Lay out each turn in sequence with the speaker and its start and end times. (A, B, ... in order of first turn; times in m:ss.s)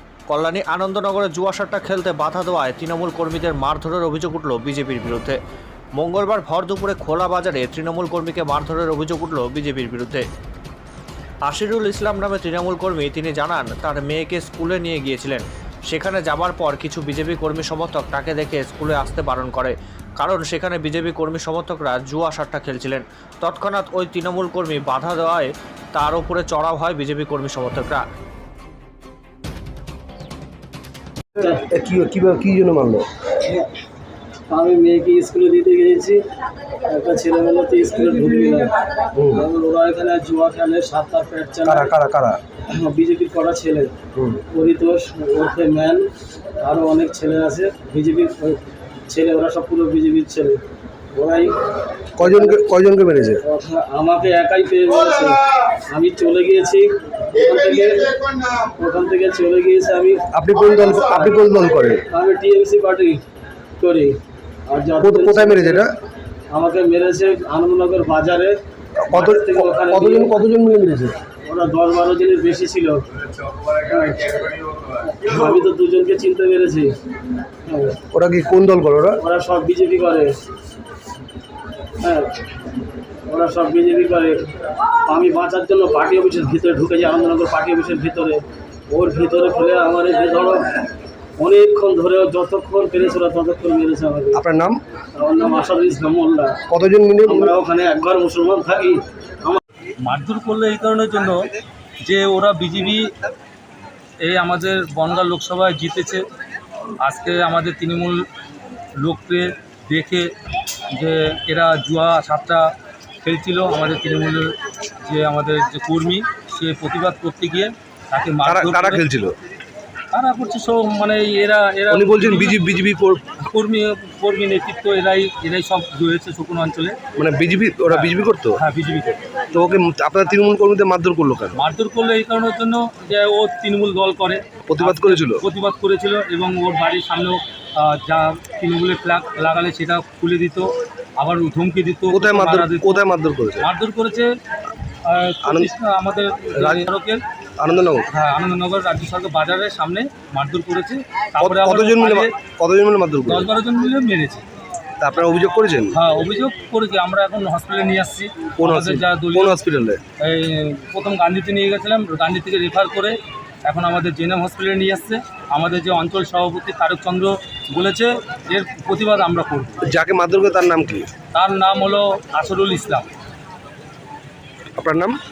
0:00.3-0:05.4 A
0:06.0-0:10.2 A
0:11.4-0:28.0 A
0:31.6-0:33.0 B
0:33.4-0:33.7 C
0:34.5-0:36.2 C
0:36.8-0:38.7 C
0:39.1-0:39.4 B
0:39.3-0:41.9 C
0:41.6-0:42.4 B
0:42.7-0:43.9 C
0:44.1-0:44.4 B
0:44.5-0:46.1 C
0:46.6-0:50.6 C
0:51.1-0:51.5 C
0:52.2-0:52.6 C
0:52.2-0:53.4 B
0:53.4-1:00.2 C
1:00.3-1:02.0 B
1:01.1-1:01.3 C
1:02.1-1:03.2 C
1:03.8-1:04.1 C
1:04.7-1:05.8 C
1:05.0-1:05.9 B
1:06.5-1:08.6 C
1:09.1-1:11.1 B
1:09.1-1:10.3 C
1:11.4-1:13.0 C
1:13.7-1:16.9 C
1:17.7-1:18.0 C
1:18.1-1:19.2 B
1:19.2-1:20.3 C
1:22.0-1:22.4 C
1:23.3-1:24.5 C
1:25.0-1:30.7 C
1:31.4-1:34.4 C
1:34.3-1:34.8 B
1:35.1-1:36.6 C
1:36.7-1:37.5 B
1:37.2-1:39.6 C
1:40.0-1:43.1 D
1:44.2-1:46.3 D
1:47.0-1:48.3 D
1:49.0-1:50.3 D
1:50.9-1:52.7 D
1:53.2-1:59.0 D
1:58.4-1:59.4 B
2:00.1-2:02.7 D
2:01.9-2:03.2 B
2:03.4-2:07.0 D
2:07.2-2:08.6 B
2:07.9-2:09.4 D
2:09.5-2:11.6 B
2:11.5-2:23.0 D
2:14.7-2:15.4 B
2:22.1-2:23.7 B
2:23.6-2:24.3 D
2:25.0-2:27.2 D
2:25.4-2:25.7 B
2:26.6-2:26.9 B
2:27.6-2:28.1 B
2:28.1-2:32.3 D
2:31.4-2:33.5 B
2:33.2-2:34.4 D
2:35.0-2:36.0 B
2:35.9-2:39.6 D
2:38.6-2:40.0 B
2:40.2-2:49.9 D
2:49.8-2:51.1 B
2:51.3-2:53.1 D
2:54.8-2:55.2 B